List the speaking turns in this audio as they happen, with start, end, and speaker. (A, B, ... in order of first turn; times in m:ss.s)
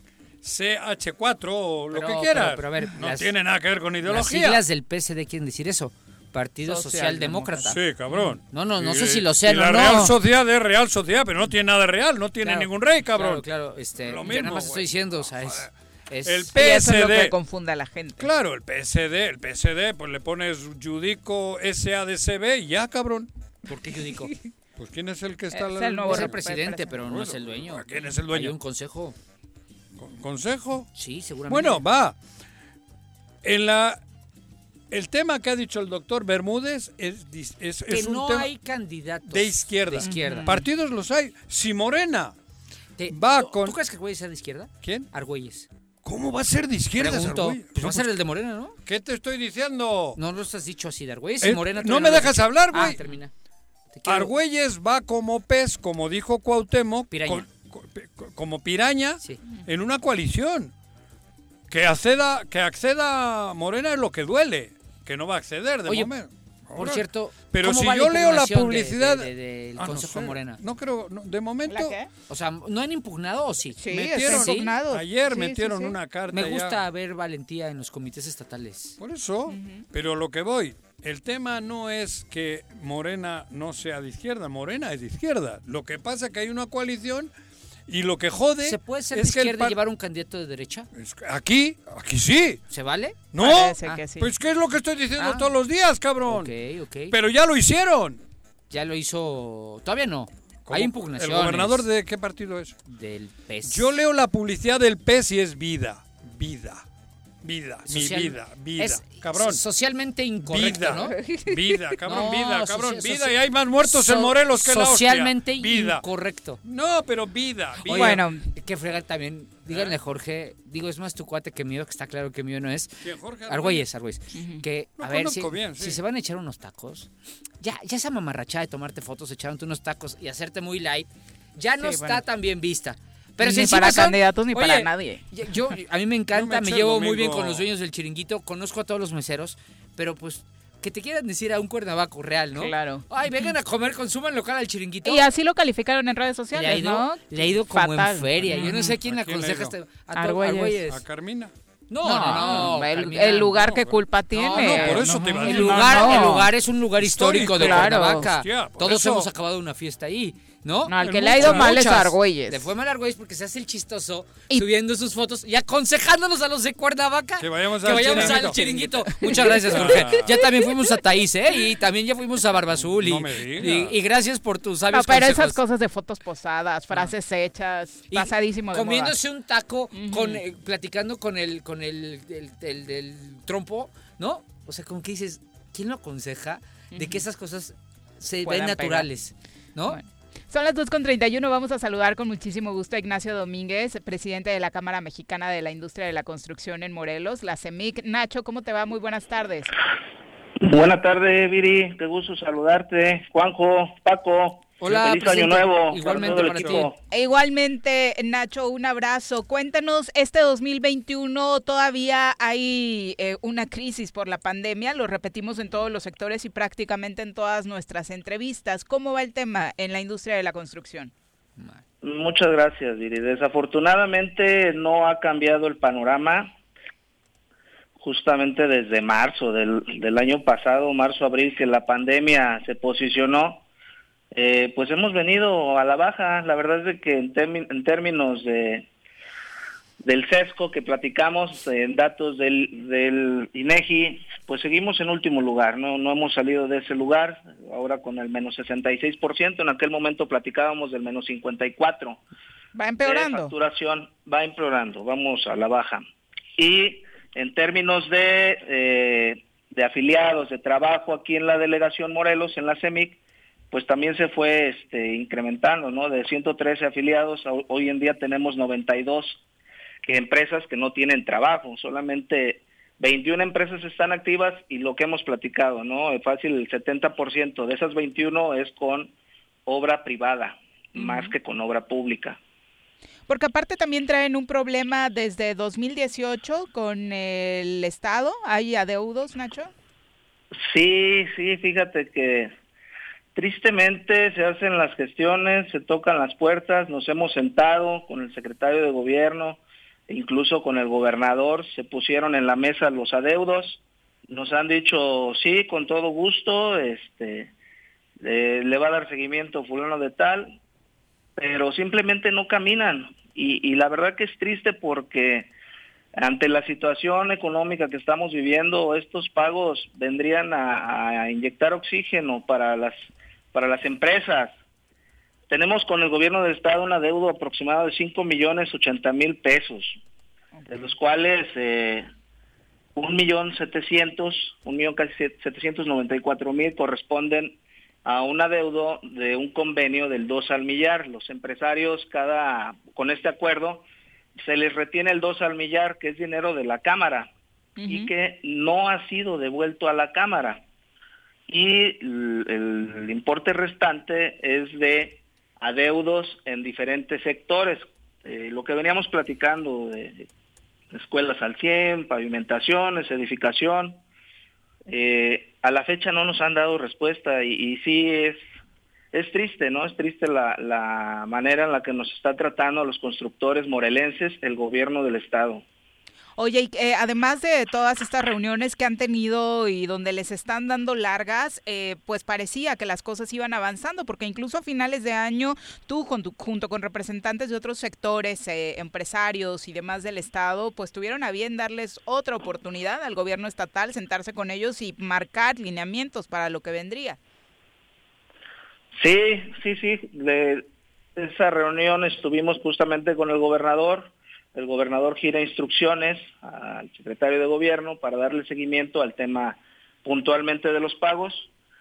0:00.4-0:04.6 A
0:01.9-0:03.3 B
0:04.1-0:07.8 B
0:06.6-0:08.3 C
0:07.6-0:13.4 A
0:08.4-0:10.2 B
0:12.4-0:16.6 B
0:14.0-0:15.7 A
0:16.2-0:17.4 A
0:16.6-0:18.3 C
0:18.2-0:23.3 A
0:23.7-0:24.3 B
0:24.8-0:26.4 A
0:25.5-0:26.9 C
0:26.1-0:29.2 B
0:27.0-0:28.6 A
0:30.0-0:30.9 A
0:30.9-0:31.8 B
0:31.5-0:32.1 A
0:33.4-0:34.0 A
0:34.9-0:38.5 A
0:37.9-0:40.6 B
0:39.3-0:42.4 A
0:40.0-0:40.6 C
0:43.0-0:45.7 B
0:43.1-0:43.8 A
0:44.8-0:45.1 A
0:46.0-0:48.2 A
0:47.0-0:48.8 B
0:48.8-0:50.2 A
0:50.2-0:53.3 B
0:51.4-0:53.0 A
0:53.9-0:54.3 B
0:54.1-1:00.7 A
0:57.1-0:57.4 B
1:01.7-1:12.0 A
1:05.9-1:06.1 B
1:06.8-1:10.6 B
1:11.7-1:12.1 C
1:12.3-1:14.7 B
1:13.8-1:15.9 C
1:13.9-1:16.8 A
1:16.3-1:19.0 B
1:19.0-1:27.3 A
1:19.5-1:19.8 C
1:27.9-1:29.8 A
1:28.6-1:30.9 B
1:30.9-1:32.6 A
1:32.7-1:33.3 B
1:33.3-1:36.5 A
1:33.4-1:34.3 C
1:35.2-1:35.5 B
1:36.2-1:37.1 B
1:37.1-1:38.2 A
1:38.7-1:41.8 B
1:40.7-1:42.8 A
1:42.9-1:43.9 B
1:43.6-1:46.8 A
1:47.4-1:49.6 A
1:47.9-1:51.2 B
1:50.4-1:56.0 A
1:51.0-1:51.8 C
1:52.0-1:56.6 B
1:56.6-1:58.2 A
1:57.8-2:07.1 B
1:57.9-1:58.5 C
1:59.7-1:59.9 A
2:03.0-2:03.8 A
2:04.3-2:04.6 C
2:05.0-2:06.0 A
2:07.6-2:25.3 B
2:11.8-2:12.2 C
2:13.4-2:15.2 C
2:16.3-2:17.7 A
2:22.6-2:23.5 C
2:25.0-2:29.0 C
2:26.5-2:31.0 B
2:28.5-2:29.8 A
2:30.1-2:30.8 C
2:30.9-2:31.5 A
2:31.9-2:33.6 B
2:32.0-2:36.5 C
2:32.3-2:32.7 A
2:33.5-2:36.4 A
2:34.3-2:55.6 B
2:37.0-2:39.3 A
2:37.6-2:38.3 C
2:40.8-2:42.7 C
2:41.0-2:41.8 A
2:47.4-2:50.4 A
2:48.2-2:50.2 C
2:52.8-2:53.9 A
2:54.9-2:59.2 C
2:58.1-3:10.0 B
2:59.9-3:00.4 C
3:06.9-3:07.2 C
3:08.4-3:09.1 C
3:09.9-3:19.7 C
3:20.6-3:27.0 D
3:24.8-3:26.9 B
3:26.0-3:26.9 A
3:27.1-3:41.1 C
3:41.6-3:41.8 B
3:42.0-3:46.5 D
3:48.0-3:53.6 D
3:54.3-3:58.8 D
4:00.0-4:12.2 D
4:12.7-4:13.5 C
4:13.0-4:16.0 D
4:16.6-4:23.2 D
4:23.7-4:29.4 D
4:30.0-4:39.1 D
4:39.6-4:42.4 D
4:41.0-4:41.3 C
4:43.3-4:49.7 C
4:50.6-4:52.5 D
4:53.4-5:07.5 D
5:08.2-5:10.6 D
5:11.4-5:15.5 D
5:16.2-5:24.5 D
5:25.5-5:30.0 D
5:30.7-5:32.1 D
5:32.9-5:43.8 D
5:44.4-5:47.3 D
5:47.8-5:48.1 C
5:47.9-5:50.6 D
5:51.5-6:00.3 D
6:00.9-6:04.0 D
6:04.9-6:08.4 D
6:09.1-6:15.6 D
6:16.4-6:37.2 C
6:39.0-6:51.5 D